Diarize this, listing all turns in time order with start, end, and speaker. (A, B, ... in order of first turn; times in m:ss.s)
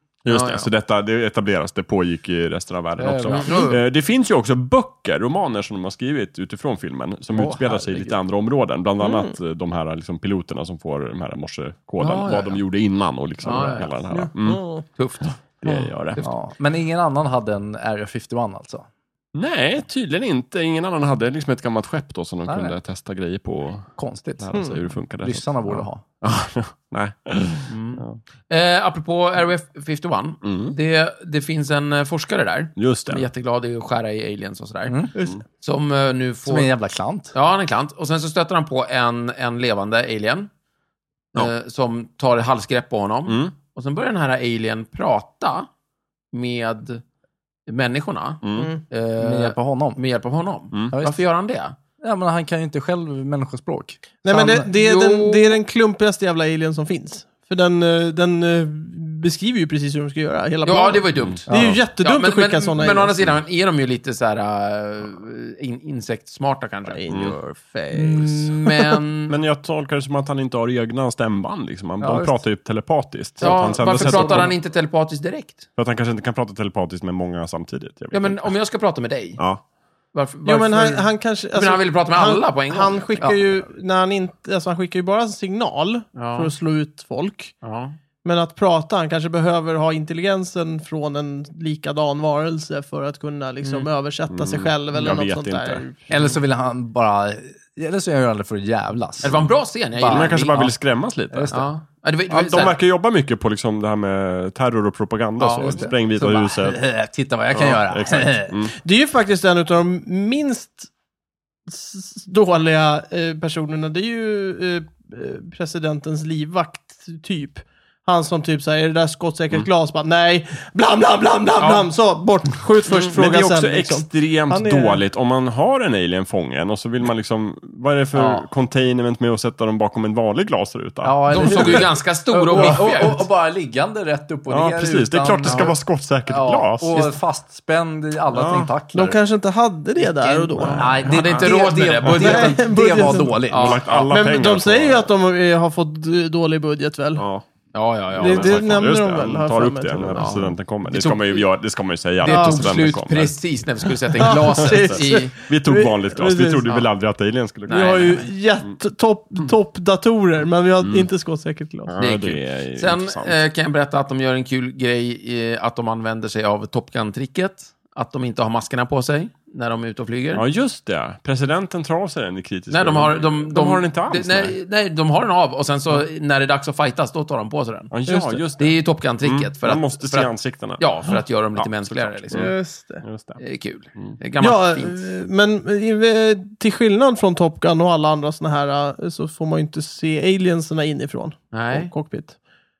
0:00.2-0:14.6 A
0:00.3-0:00.7 B
0:03.0-0:03.8 C
0:03.2-0:03.8 B
0:07.3-0:08.2 C
0:09.0-0:09.3 D
0:12.0-0:12.6 B
0:13.4-0:13.9 B
0:14.1-0:14.8 D
0:15.0-0:16.3 B
0:15.6-0:16.2 A
0:16.2-0:18.9 C
0:19.4-0:28.2 A
0:22.5-0:22.8 C
0:24.0-0:24.7 C
0:25.2-0:26.0 C
0:27.7-0:35.0 B
0:30.4-0:30.8 A
0:32.8-0:33.3 A
0:34.9-0:35.1 C
0:35.1-0:35.4 D
0:35.6-0:36.7 B
0:36.5-0:37.3 C
0:37.3-0:40.5 B
0:41.3-0:45.7 B
0:43.3-0:43.6 A
0:46.3-0:47.0 B
0:47.7-0:51.8 B
0:48.4-0:48.7 A
0:48.6-0:48.8 D
0:49.2-0:50.0 C
0:50.9-0:51.2 C
0:52.0-0:54.6 C
0:54.2-1:03.2 D
0:54.6-0:55.6 B
1:00.6-1:07.0 B
1:01.2-1:01.4 A
1:01.5-1:01.8 C
1:06.9-1:09.0 D
1:07.1-1:07.4 A
1:07.9-1:09.4 B
1:09.3-1:14.6 A
1:12.0-1:12.4 C
1:13.4-1:15.6 B
1:13.5-1:14.5 C
1:15.8-1:18.5 A
1:18.1-1:19.4 B
1:20.1-1:23.4 B
1:20.4-1:27.5 D
1:26.1-1:26.5 B
1:27.6-1:28.0 B
1:28.2-1:36.0 D
1:33.6-1:33.9 B
1:34.3-1:35.9 A
1:36.1-1:40.8 C
1:39.2-1:40.7 B
1:40.1-1:41.6 A
1:41.3-1:41.6 C
1:41.5-1:42.8 B
1:42.3-1:46.8 A
1:45.4-1:45.9 B
1:45.6-1:48.6 C
1:47.5-1:48.7 A
1:48.7-1:50.9 D
1:51.7-2:05.0 D
2:01.6-2:01.9 B
2:02.9-2:03.1 B
2:02.9-2:11.9 A
2:08.1-2:08.4 C
2:11.0-2:15.8 C
2:11.3-2:13.3 B
2:14.5-2:16.9 A
2:15.4-2:15.7 B
2:16.3-2:19.2 C
2:18.3-2:18.7 A
2:18.9-2:21.0 D
2:20.0-2:23.8 C
2:20.6-2:22.6 B
2:21.0-2:22.2 A
2:22.1-2:23.5 D
2:23.5-2:24.1 B
2:23.5-2:25.1 A
2:24.0-2:27.3 D
2:27.2-2:27.5 A
2:27.7-2:28.9 B
2:28.1-2:38.7 A
2:28.2-2:30.4 D
2:30.1-2:31.5 B
2:32.2-2:35.3 B
2:32.3-2:32.6 D
2:34.2-2:36.8 D
2:37.7-2:38.3 B
2:37.7-2:42.0 D
2:40.8-2:41.1 A
2:41.9-2:43.4 A
2:42.0-2:50.4 B
2:50.3-2:54.6 A
2:52.7-2:57.9 B
2:57.9-3:03.4 A
2:58.1-2:58.4 D
2:58.6-3:02.5 B
3:02.3-3:03.0 D
3:03.4-3:05.0 B
3:04.4-3:12.4 D
3:11.5-3:11.9 B